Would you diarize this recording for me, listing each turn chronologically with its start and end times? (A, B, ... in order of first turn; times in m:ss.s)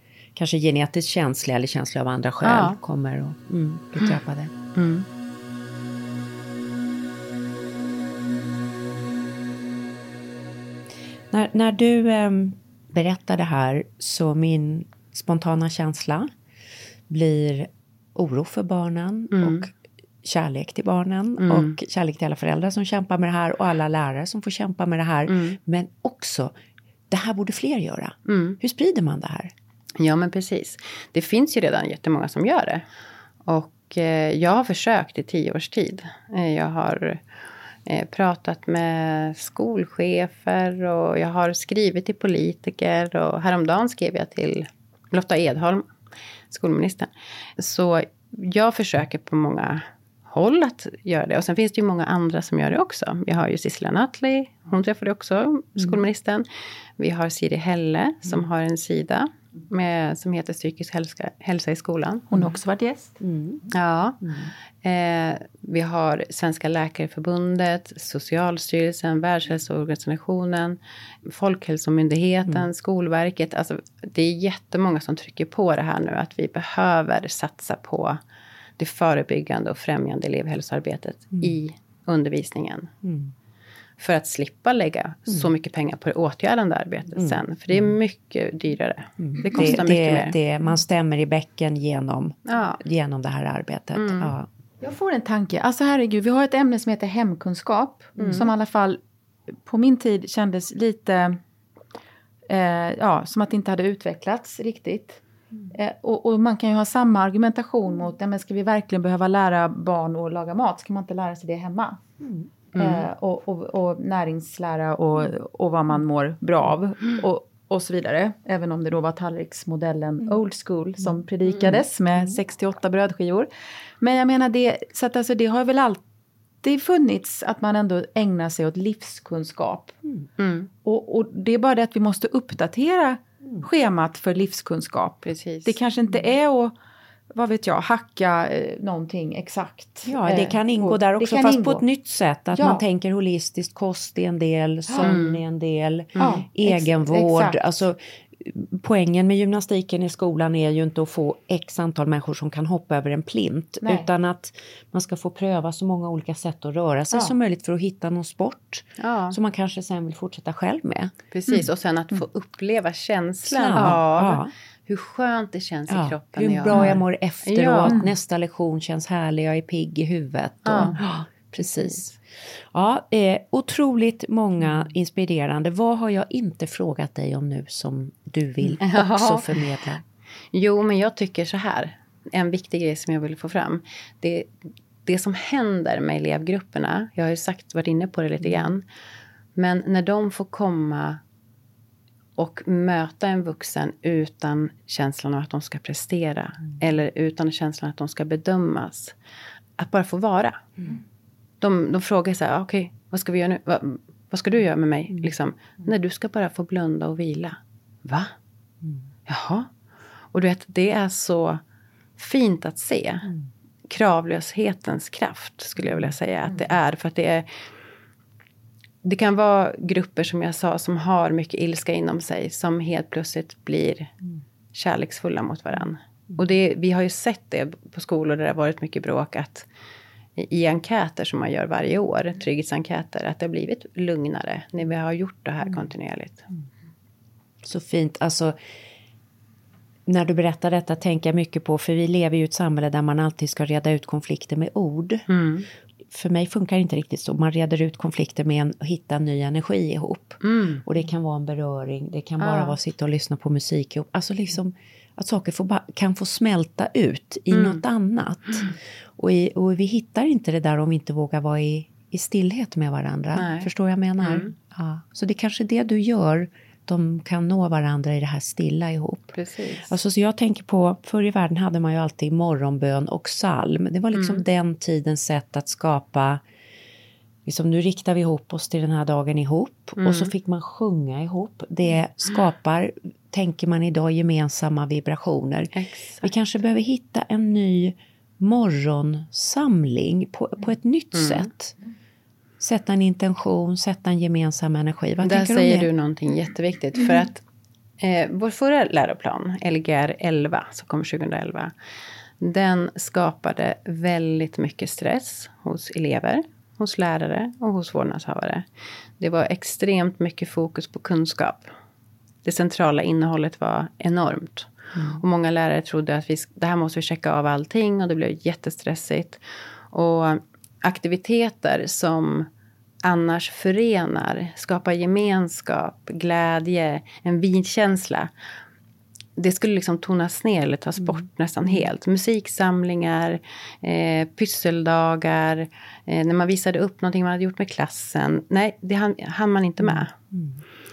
0:00.3-0:04.5 A
0:02.4-0:02.8 B
0:04.8-0:05.0 B
0:11.3-0:16.3 A
0:17.1-0:19.7 A
0:19.3-0:19.6 B
0:20.2-0:26.5 A
0:21.4-0:21.8 B
0:25.3-0:25.6 B
0:27.1-0:29.5 A
0:28.3-0:28.6 B
0:30.0-0:32.8 B
0:33.4-0:37.2 B
0:37.8-0:45.9 B
0:46.5-0:56.5 B
0:57.0-1:02.3 B
1:02.3-1:03.2 C
1:03.2-1:03.6 A
1:03.7-1:04.2 B
1:04.2-1:04.5 A
1:04.8-1:18.2 B
1:18.8-1:22.9 B
1:23.0-1:23.3 A
1:24.0-1:30.3 B
1:27.2-1:27.4 A
1:29.2-1:34.5 A
1:32.4-1:32.8 B
1:34.0-1:34.3 B
1:34.8-1:39.0 C
1:38.2-1:38.5 B
1:39.6-1:41.4 C
1:42.5-1:52.0 C
1:52.2-1:52.5 A
1:52.8-1:53.0 B
1:52.8-2:03.5 C
2:01.7-2:02.3 A
2:04.0-2:06.0 C
2:06.6-2:10.0 C
2:10.4-2:10.7 B
2:10.8-2:16.7 C
2:15.2-2:15.7 B
2:17.3-2:21.8 C
2:20.0-2:41.1 A
2:22.5-2:22.8 C
2:25.0-2:25.4 B
2:26.2-2:27.6 C
2:33.8-2:34.1 C
2:39.0-2:39.4 B
2:41.3-2:48.0 B
2:43.4-2:44.5 A
2:45.9-2:52.1 A
2:46.7-2:47.0 C
2:50.6-2:51.0 B
2:51.7-2:52.0 B
2:52.7-3:00.0 A
2:58.8-2:59.7 B
3:00.5-3:04.5 B
3:05.0-3:08.8 B
3:09.6-3:11.2 B
3:12.4-3:19.1 B
3:19.8-3:20.6 B
3:21.6-3:28.3 B
3:29.3-3:29.7 B
3:30.3-3:31.6 B
3:32.2-3:33.3 B
3:33.9-3:37.5 B
3:39.0-3:44.1 B
3:44.7-3:49.6 B
3:50.4-3:56.4 B
3:57.6-3:58.6 A
4:00.1-4:05.2 A
4:05.3-4:05.7 B
4:06.1-4:29.3 A
4:10.4-4:10.8 B
4:12.4-4:12.8 B
4:17.5-4:17.8 B
4:23.3-4:23.7 B
4:24.2-4:24.5 B
4:29.3-4:29.9 B
4:29.8-4:36.4 A
4:34.1-4:34.4 B
4:37.4-4:51.7 A
4:40.0-4:40.3 B
4:45.7-4:46.3 B
4:51.1-4:51.5 B
4:52.6-4:55.9 A
4:55.2-4:57.4 B
4:58.0-5:01.7 B
5:02.4-5:08.6 B
5:09.2-5:11.7 B
5:12.4-5:19.4 B
5:15.0-5:15.2 A
5:19.9-5:22.5 B
5:23.0-5:28.3 B
5:29.4-5:40.1 B
5:31.0-5:31.2 A
5:39.8-5:40.6 A